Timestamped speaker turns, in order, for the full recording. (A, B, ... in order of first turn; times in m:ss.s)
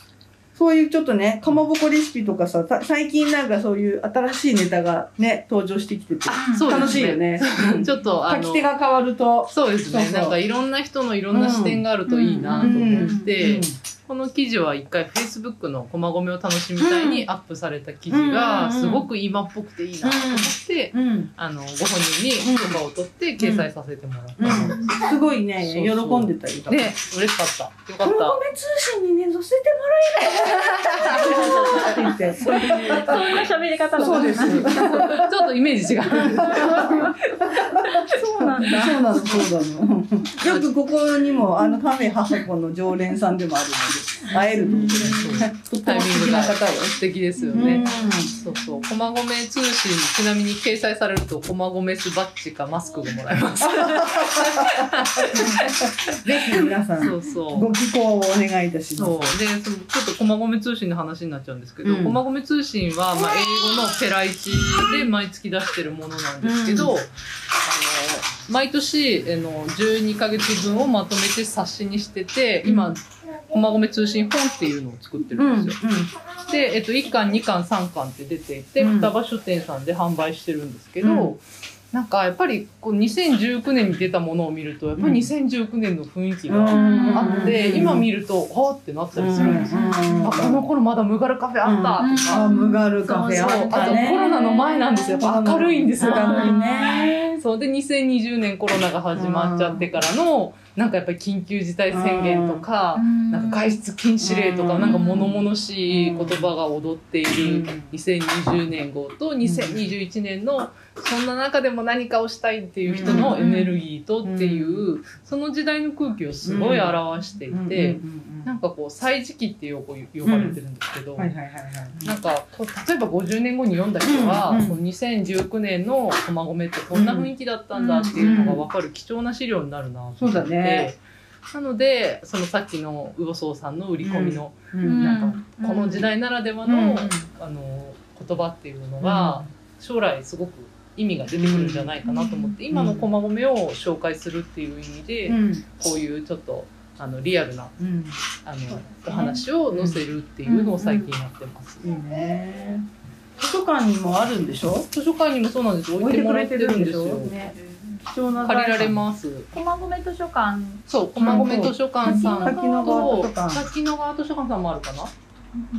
0:00.5-0:10.4 A
0:06.3-0:08.7 B
0:06.4-0:07.0 C
0:09.5-0:28.4 B
0:11.3-0:11.8 A
0:12.1-0:13.3 C
0:12.6-0:13.8 A
0:16.8-0:17.2 A
0:18.1-0:19.1 A
0:20.0-0:21.3 A
0:22.4-0:22.8 A
0:23.4-0:23.7 A
0:24.4-0:27.0 A
0:24.8-0:25.2 C
0:28.0-0:35.3 A
0:30.7-0:35.2 C
0:30.8-0:33.4 B
0:34.0-0:38.0 B
0:36.0-0:46.9 A
0:36.3-0:37.1 C
0:37.9-0:39.2 C
0:40.4-0:40.7 B
0:44.7-0:56.2 B
0:44.7-0:45.1 C
0:47.4-0:48.3 C
0:47.5-0:48.3 A
0:53.7-0:55.6 A
0:56.1-0:59.3 A
0:57.0-0:57.7 B
0:58.9-1:15.8 B
1:01.8-1:02.2 A
1:06.4-1:06.9 A
1:12.6-1:12.9 A
1:15.4-1:16.1 A
1:16.5-1:32.5 B
1:18.8-1:19.1 A
1:21.0-1:21.4 A
1:25.0-1:25.3 A
1:26.5-1:28.1 A
1:26.7-1:27.6 C
1:29.1-1:30.6 A
1:29.3-1:30.4 C
1:31.6-1:34.2 A
1:32.0-1:35.2 C
1:33.2-2:01.3 B
1:35.2-1:37.4 A
1:36.0-1:37.1 C
1:39.1-1:39.9 A
1:41.9-1:42.6 A
1:42.9-1:43.8 C
1:44.2-1:45.3 A
1:44.8-1:45.3 C
1:45.9-1:46.5 A
1:47.4-1:47.9 A
1:49.4-1:49.8 A
1:52.9-1:53.4 A
1:53.0-1:53.7 C
1:54.2-1:54.8 A
1:56.4-1:58.5 A
2:00.2-2:00.6 A
2:01.2-2:02.1 A
2:02.0-2:27.8 B
2:04.0-2:04.8 A
2:06.9-2:07.3 A
2:07.7-2:08.5 C
2:08.1-2:08.6 A
2:10.2-2:10.9 A
2:14.0-2:15.2 A
2:14.8-2:16.0 C
2:16.6-2:17.3 A
2:19.0-2:19.5 A
2:21.3-2:22.0 A
2:22.7-2:23.1 A
2:25.3-2:25.6 A
2:27.8-2:28.2 A
2:28.4-2:31.8 B
2:28.8-2:29.4 C
2:29.7-2:30.0 A
2:30.4-2:31.0 C
2:31.8-2:32.8 A
2:33.4-2:34.9 A
2:34.9-2:37.4 B
2:36.0-2:39.0 A
2:37.6-2:38.0 C
2:38.4-2:39.5 B
2:39.5-2:43.2 C
2:40.9-2:45.1 B
2:41.2-2:43.6 A